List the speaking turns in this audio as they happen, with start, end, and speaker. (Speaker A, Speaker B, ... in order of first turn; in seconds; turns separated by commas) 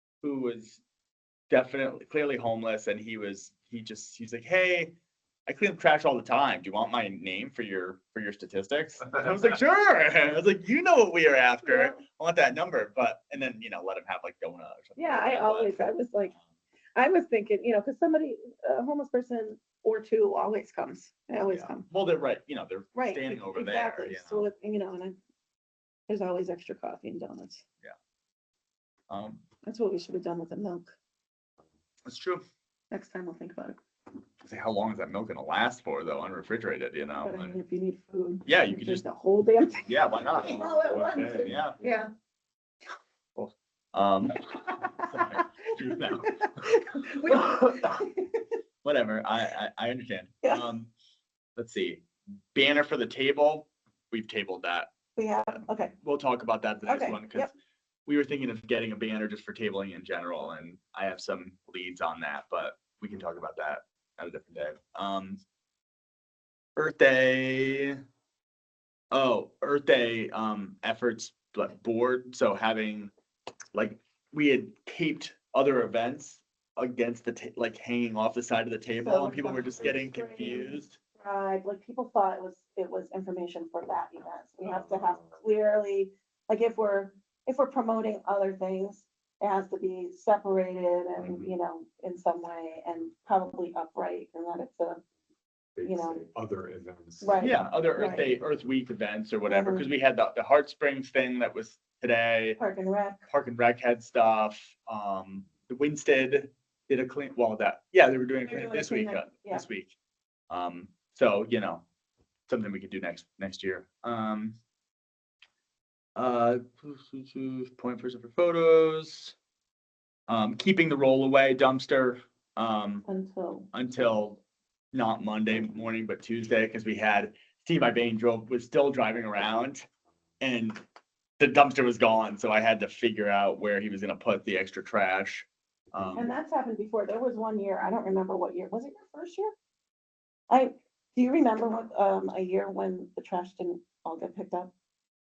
Speaker A: 0.2-0.8, Speaker A: 1.5-5.0, Speaker A: 5.5-15.8, Speaker B: 11.6-12.0, Speaker B: 15.0-16.3, Speaker B: 16.9-21.9, Speaker A: 21.4-24.5, Speaker B: 22.9-25.2, Speaker B: 26.1-27.6, Speaker A: 29.1-29.4, Speaker B: 29.6-30.9, Speaker A: 32.0-32.4, Speaker B: 32.9-33.8, Speaker A: 34.4-37.6, Speaker B: 37.2-42.1, Speaker A: 38.5-39.0, Speaker A: 39.9-40.7, Speaker A: 41.2-41.8, Speaker A: 43.4-48.0, Speaker B: 44.5-45.1, Speaker B: 46.2-48.5, Speaker A: 48.8-50.9, Speaker B: 50.4-50.7, Speaker A: 51.5-54.9, Speaker B: 55.2-55.9, Speaker A: 56.0-57.5, Speaker B: 56.9-57.5, Speaker A: 58.0-65.4, Speaker A: 66.8-68.0, Speaker A: 69.1-73.1, Speaker A: 73.7-81.0, Speaker B: 79.0-95.0, Speaker C: 84.6-85.4, Speaker C: 91.2-91.5, Speaker C: 95.8-97.8, Speaker B: 95.8-96.2, Speaker B: 97.2-98.3, Speaker A: 97.4-102.6, Speaker B: 99.4-99.9, Speaker B: 102.6-103.2, Speaker A: 103.3-110.0, Speaker B: 108.4-109.7, Speaker A: 110.5-111.8, Speaker A: 112.5-114.6, Speaker A: 116.2-119.3, Speaker A: 120.3-123.0, Speaker B: 123.0-123.7, Speaker A: 123.7-129.9, Speaker A: 130.4-130.8, Speaker A: 131.4-136.3, Speaker B: 136.2-139.5, Speaker B: 140.5-144.7